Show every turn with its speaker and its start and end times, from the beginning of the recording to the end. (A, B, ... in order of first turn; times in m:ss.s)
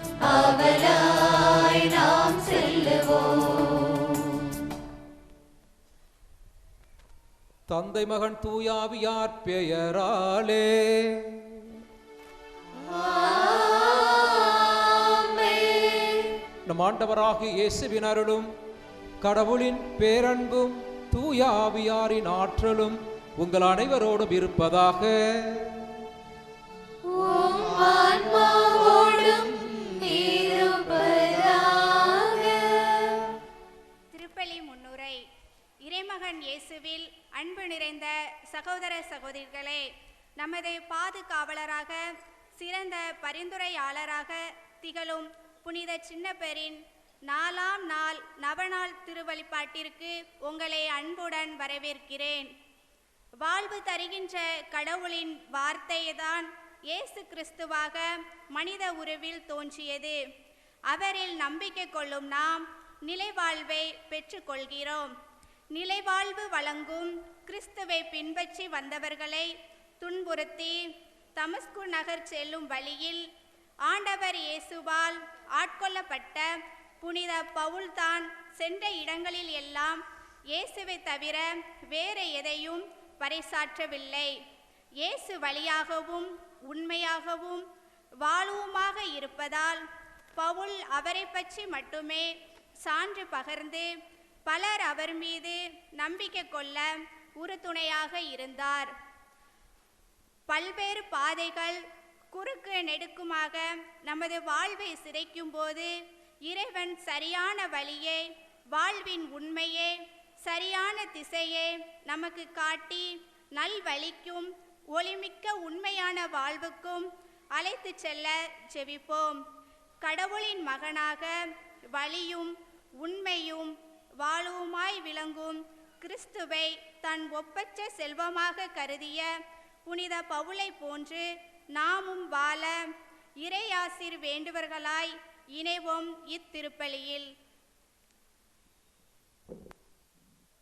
0:00.2-0:04.3 A
0:07.7-0:11.7 B
0:12.8-0:16.4 A
0:16.6-0:18.5 B
0:19.2-0:25.9 B
0:27.0-0:33.2 A
0:34.1-0:35.2 C
0:35.8-0:39.8 C
0:40.4-0:42.0 C
0:42.6-0:52.5 C
0:53.4-1:00.2 C
1:00.9-1:05.1 C
1:05.7-1:10.8 C
1:11.4-1:13.2 C
1:13.9-1:16.5 C
1:17.0-1:24.3 C
1:25.0-1:27.6 C
1:28.2-1:29.8 C
1:30.4-1:33.9 C
1:34.5-1:38.9 C
1:40.5-1:41.8 C
1:42.3-1:45.9 C
1:46.5-1:59.4 C
2:00.0-2:01.3 C
2:02.0-2:09.3 C
2:09.9-2:12.8 C
2:13.4-2:17.3 C